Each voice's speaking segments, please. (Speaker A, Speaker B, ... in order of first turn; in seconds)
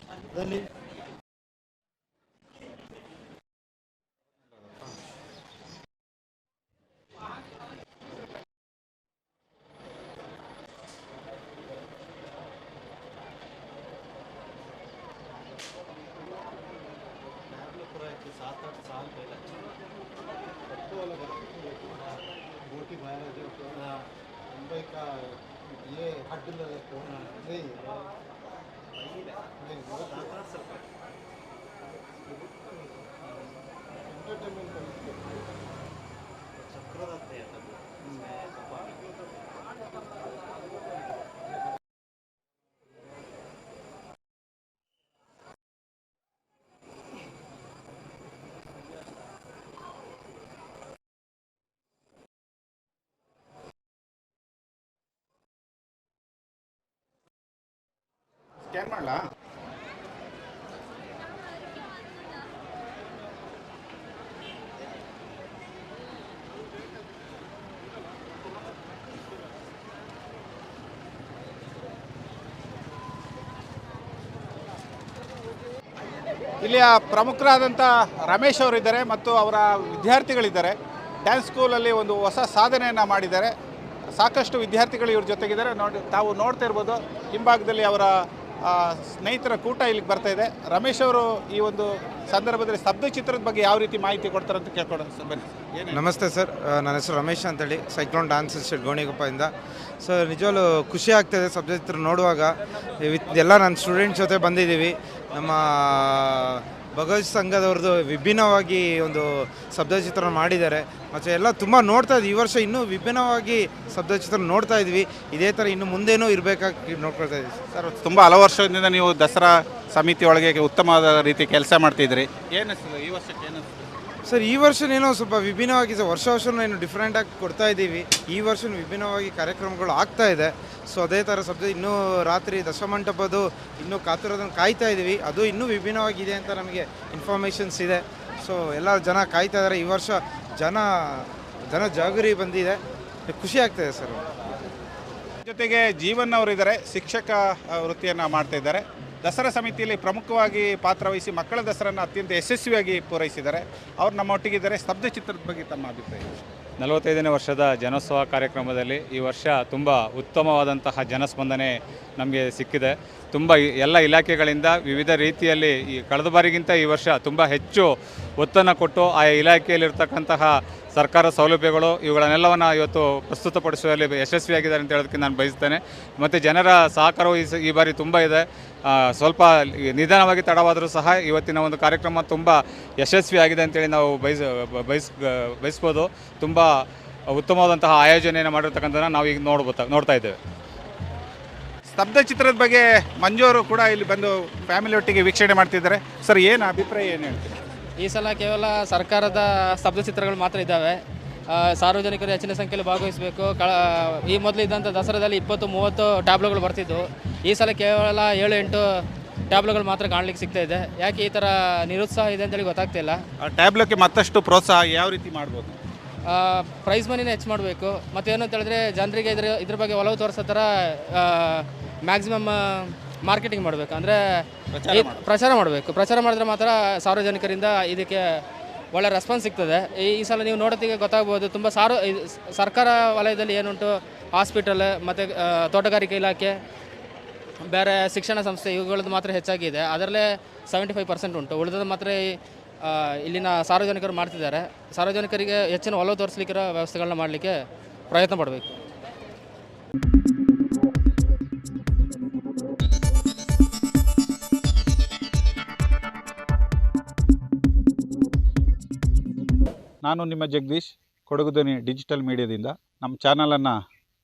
Speaker A: 0.3-0.7, 17.5-19.7, 20.8-24.0, 24.5-25.2, 25.9-28.1, 29.0-30.8, 34.2-35.1, 36.7-39.1
Speaker B: 58.7-59.2, 76.6-80.7, 81.2-83.5, 84.2-88.1, 88.6-96.1, 117.7-123.7, 145.4-156.4, 191.9-197.6, 213.4-215.8, 224.7-225.2, 260.0-263.7
Speaker C: 95.9-117.6, 124.3-144.2
Speaker D: 156.8-186.7, 187.3-190.4
Speaker E: 198.0-213.2, 216.3-236.6, 237.6-248.8